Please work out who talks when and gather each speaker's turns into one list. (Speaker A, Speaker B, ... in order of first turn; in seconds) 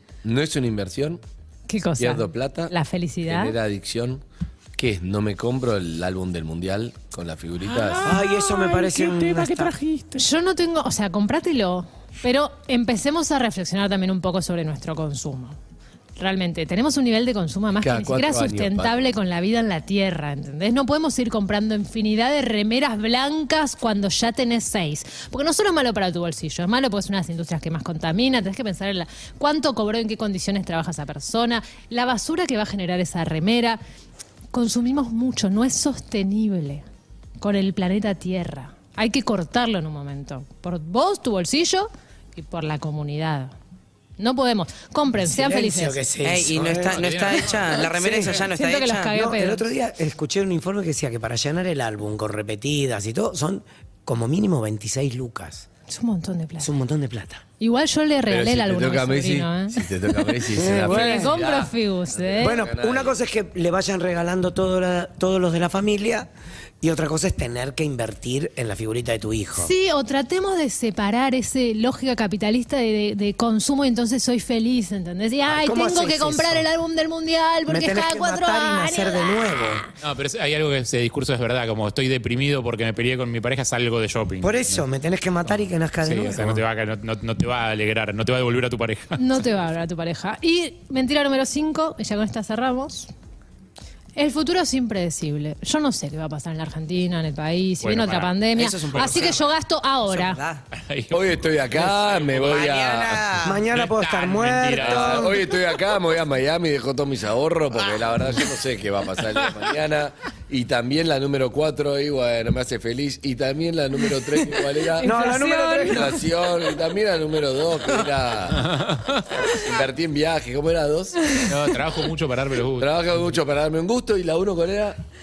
Speaker A: 0.2-1.2, 2.0-2.7, 3.3-4.2, 4.8-8.2, 17.8-19.1, 58.3-63.2, 101.1-103.2, 104.8-115.1, 115.9-118.7, 119.5-121.2, 122.8-125.0
Speaker B: 1.7-3.5, 10.1-15.6, 16.2-33.8, 34.5-36.8, 37.4-43.5, 44.2-46.0, 48.1-49.6, 55.9-56.7, 57.6-62.6, 69.5-79.7, 89.2-93.1, 94.2-100.4, 115.0-116.2, 121.2-121.5
Speaker C: 7.7-10.2, 46.9-47.8, 80.0-84.8, 85.5-89.4, 97.8-99.3, 100.7-102.7, 103.4-105.3, 118.5-119.4, 121.4-122.9
Speaker D: 8.0-9.8, 45.2-47.0, 49.1-55.7, 56.6-57.4, 60.6-61.4, 62.4-66.3, 66.8-69.7, 75.5-76.7, 77.7-79.8, 84.4-86.6, 103.4-105.3, 115.0-116.1
Speaker E: 46.2-49.1, 98.6-99.5, 100.1-100.6, 102.3-103.6